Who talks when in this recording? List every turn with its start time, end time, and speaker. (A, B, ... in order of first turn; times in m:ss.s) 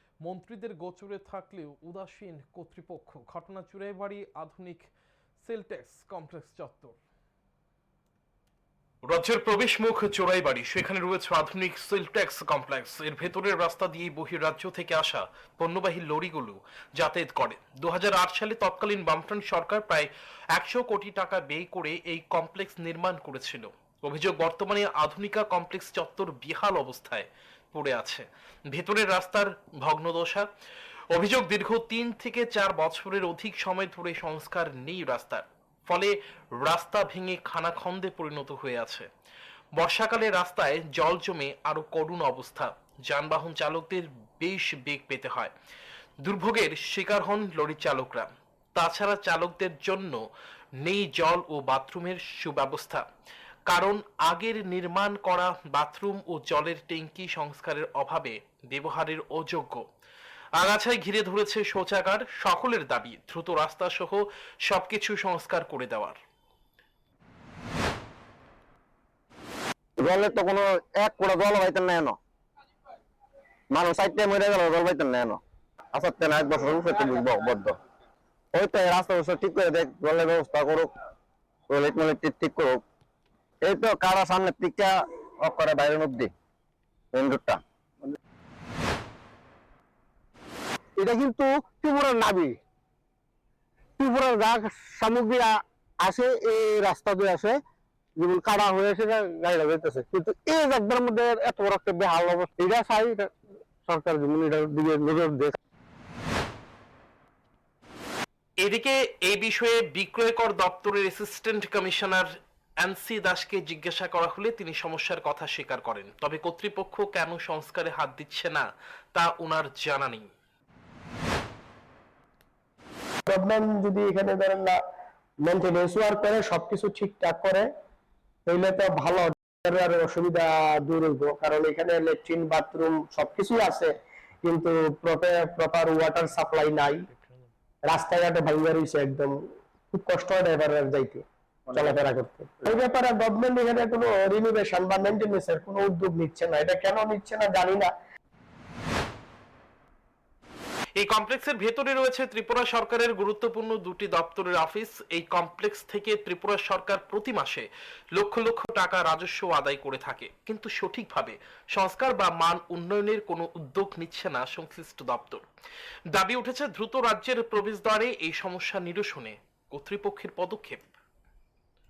0:00.2-0:04.9 A
0:05.4-0:07.0 A
0:09.0-0:30.5 B
0:31.1-0:39.1 B
0:39.8-0:45.5 B
0:46.2-0:50.2 B
0:50.8-0:53.0 B
0:53.7-0:59.8 B
1:00.6-1:06.2 B
1:10.0-1:12.2 C
1:13.7-1:15.4 C
1:15.9-1:17.8 C
1:18.6-1:20.9 C
1:21.7-1:22.8 C
1:23.6-1:26.3 C
1:27.1-1:27.6 C
1:31.0-1:32.6 D
1:34.0-1:37.6 D
1:38.2-1:43.3 D
1:43.9-1:45.6 D
1:48.6-1:52.3 B
1:52.8-2:00.3 B
2:03.3-2:04.8 E
2:05.5-2:07.7 E
2:08.5-2:13.9 E
2:14.4-2:17.1 E
2:17.9-2:19.4 E
2:19.9-2:27.9 E
2:31.0-2:45.4 B
2:46.2-2:50.9 B